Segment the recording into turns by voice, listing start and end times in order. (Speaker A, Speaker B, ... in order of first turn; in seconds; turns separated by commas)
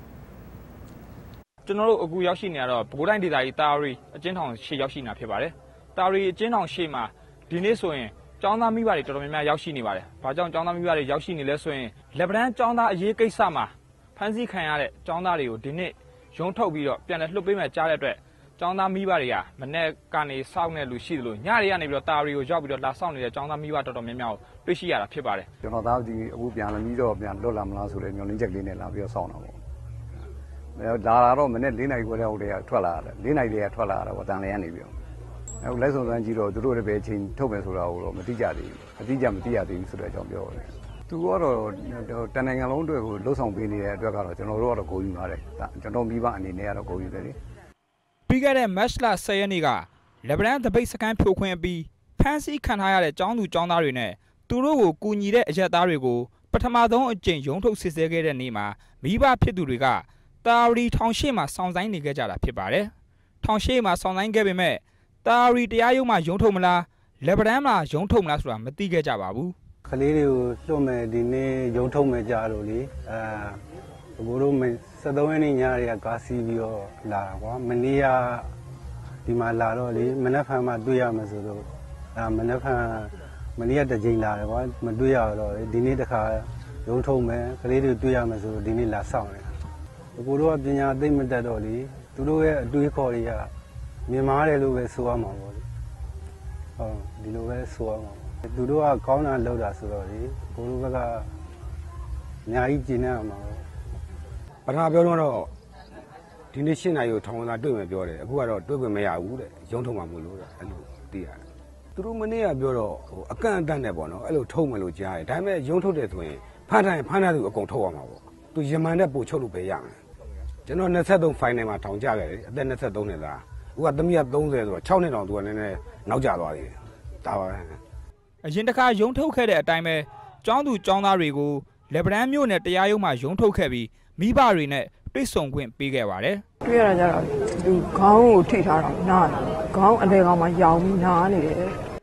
Speaker A: 1.6-25.5, Speaker B: 25.6-29.6, Speaker B: 30.8-35.0, Speaker B: 35.6-47.4, Speaker A: 48.3-69.5, Speaker C: 69.8-73.6, Speaker C: 74.2-78.5, Speaker C: 79.2-89.5, Speaker C: 90.2-93.5, Speaker C: 94.1-95.7, Speaker C: 96.8-101.3, Speaker C: 102.4-103.6, Speaker D: 104.7-105.5, Speaker D: 106.5-111.4, Speaker D: 111.9-120.0, Speaker D: 120.7-127.8, Speaker A: 128.4-136.4, Speaker E: 136.6-141.8